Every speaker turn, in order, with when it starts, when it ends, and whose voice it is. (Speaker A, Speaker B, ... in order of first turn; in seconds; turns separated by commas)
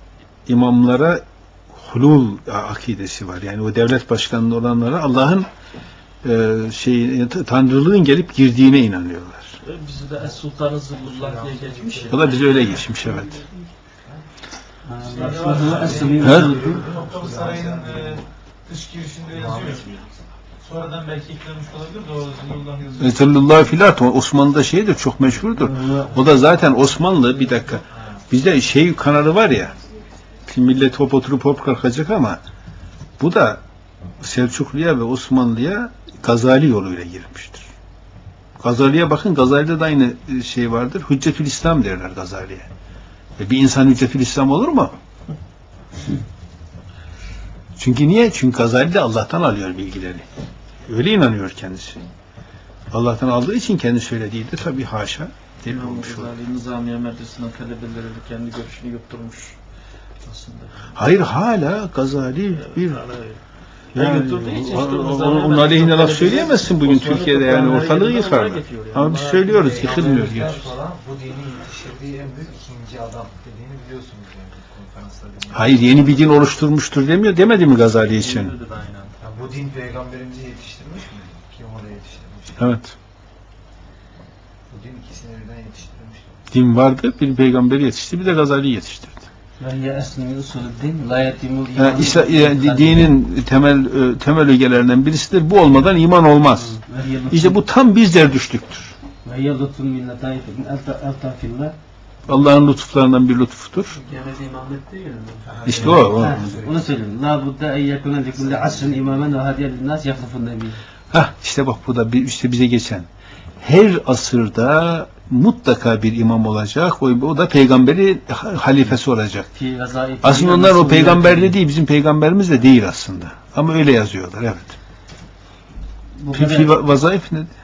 Speaker A: 0.5-5.5, Speaker A: 6.2-9.6, Speaker B: 9.6-12.9, Speaker C: 11.0-12.6, Speaker A: 12.1-13.4, Speaker D: 14.9-16.9, Speaker C: 15.1-18.2, Speaker E: 15.1-19.9, Speaker B: 15.8-16.2, Speaker A: 16.2-16.5, Speaker C: 19.3-20.1, Speaker E: 20.6-23.3, Speaker A: 23.0-29.8, Speaker D: 25.6-26.3, Speaker A: 30.5-32.4, Speaker A: 33.2-33.6, Speaker A: 34.2-37.7, Speaker A: 38.6-42.7, Speaker A: 43.4-44.9, Speaker A: 47.8-50.3, Speaker A: 50.8-52.0, Speaker A: 52.9-56.3, Speaker B: 55.6-59.6, Speaker B: 60.2-60.9, Speaker A: 60.9-63.0, Speaker B: 62.5-63.4, Speaker A: 64.0-70.6, Speaker B: 64.0-70.7, Speaker C: 69.5-76.2, Speaker A: 75.5-78.5, Speaker B: 78.1-79.2, Speaker C: 79.2-82.7, Speaker A: 82.6-83.0, Speaker C: 84.7-86.4, Speaker A: 86.5-89.2, Speaker D: 89.6-93.2, Speaker A: 91.8-99.0, Speaker D: 96.6-97.6, Speaker D: 99.2-101.8, Speaker A: 102.3-104.0, Speaker D: 104.2-110.8, Speaker C: 105.4-106.9, Speaker A: 105.7-106.6, Speaker A: 111.1-113.1, Speaker A: 113.6-119.5, Speaker D: 119.5-121.6, Speaker A: 120.2-124.8, Speaker D: 126.2-126.7, Speaker A: 126.3-127.5